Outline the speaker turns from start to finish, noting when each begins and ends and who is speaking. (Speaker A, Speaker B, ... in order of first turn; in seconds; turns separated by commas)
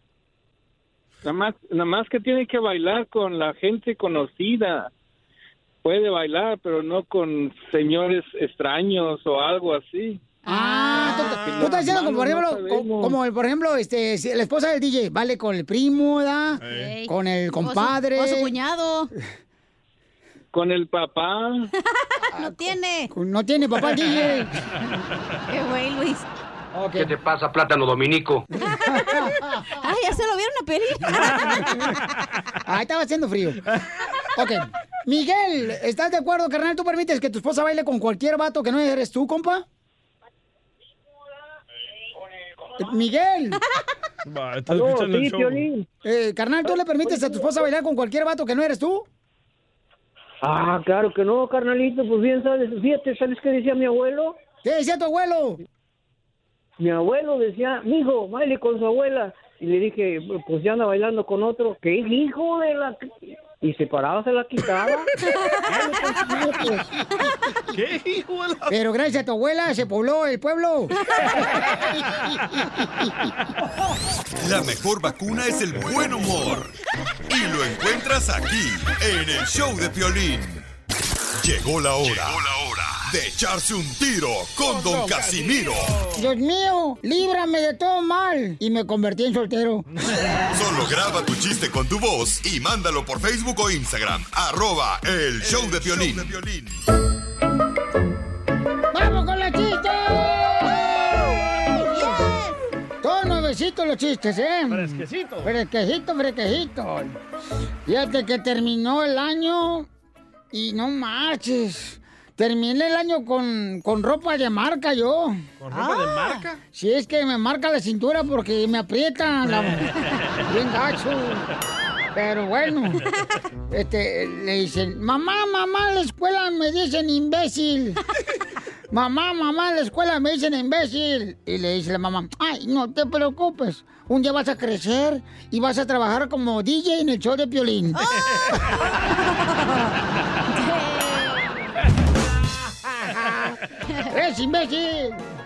Speaker A: 1.3-4.8, Speaker A: 5.9-10.1, Speaker B: 10.4-11.4, Speaker C: 10.4-18.5, Speaker D: 10.9-11.9, Speaker A: 12.3-13.0, Speaker D: 16.6-16.9, Speaker B: 16.6-19.1, Speaker A: 20.6-21.4, Speaker B: 21.9-23.1, Speaker C: 22.3-24.9, Speaker B: 25.5-26.3, Speaker C: 26.7-27.1, Speaker C: 28.6-29.6, Speaker B: 28.6-32.0, Speaker D: 31.4-31.7, Speaker C: 32.6-33.6, Speaker C: 34.3-39.6, Speaker C: 42.8-43.6, Speaker D: 44.2-45.7, Speaker E: 44.7-45.9, Speaker C: 46.0-49.0, Speaker E: 47.0-47.5, Speaker E: 50.4-54.4, Speaker C: 54.6-55.6, Speaker E: 56.8-65.1, Speaker B: 65.3-65.7, Speaker E: 65.7-66.8, Speaker D: 67.7-68.7, Speaker C: 68.7-70.9, Speaker F: 74.4-76.7, Speaker F: 77.3-80.6, Speaker F: 81.4-85.9, Speaker D: 84.6-85.7, Speaker C: 86.1-89.8, Speaker F: 90.5-96.8, Speaker D: 95.4-96.1, Speaker C: 98.9-102.2, Speaker B: 101.7-102.6, Speaker C: 103.0-107.2, Speaker D: 104.7-105.5, Speaker C: 107.8-109.9, Speaker C: 110.5-115.4, Speaker D: 115.6-116.6, Speaker B: 115.7-116.4, Speaker C: 116.7-119.9, Speaker C: 120.5-121.5, Speaker C: 122.1-123.0, Speaker C: 123.7-128.0, Speaker C: 128.9-138.0, Speaker B: 137.9-139.9, Speaker B: 140.5-141.8, Speaker C: 144.1-145.2